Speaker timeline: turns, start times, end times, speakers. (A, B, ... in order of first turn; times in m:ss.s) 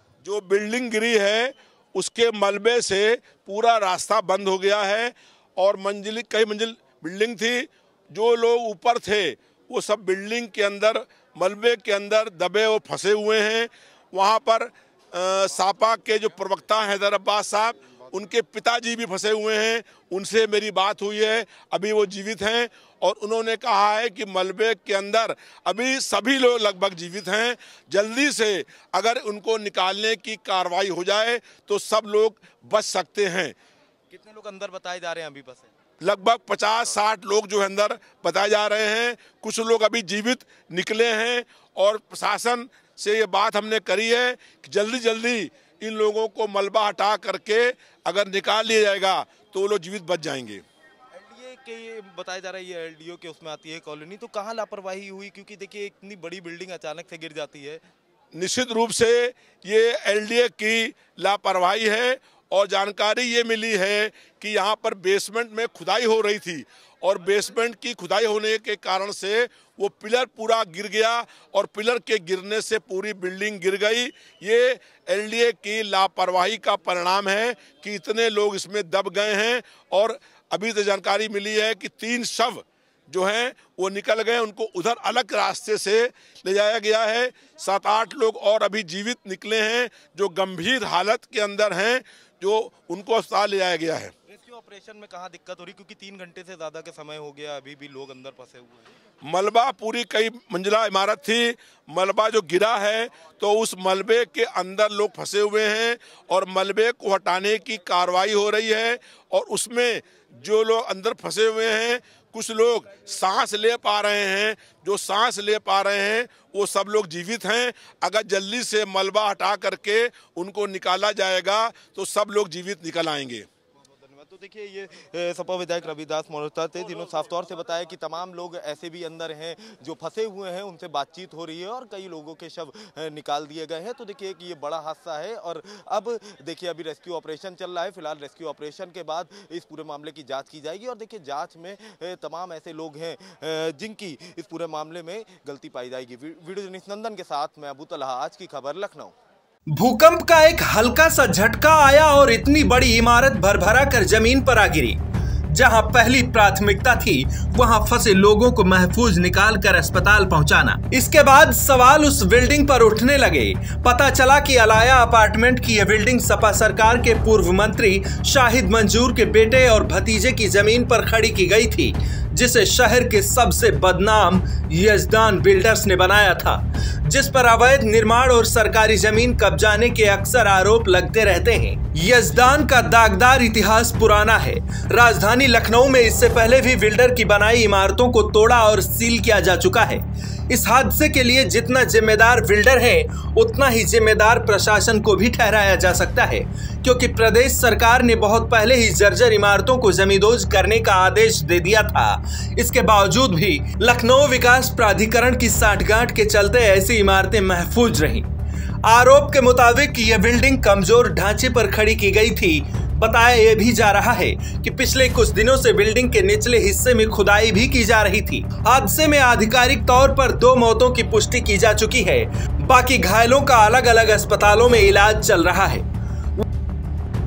0:00.2-0:33.6 A
0:34.1-0:35.7 B
0:36.0-0:50.6 A
0:51.1-0:57.8 B
0:58.3-1:34.1 A
1:34.3-1:38.9 B
1:39.2-2:03.5 A
2:03.8-2:29.1 B
2:29.7-2:35.0 C
2:35.5-3:28.3 C
3:28.8-3:45.8 C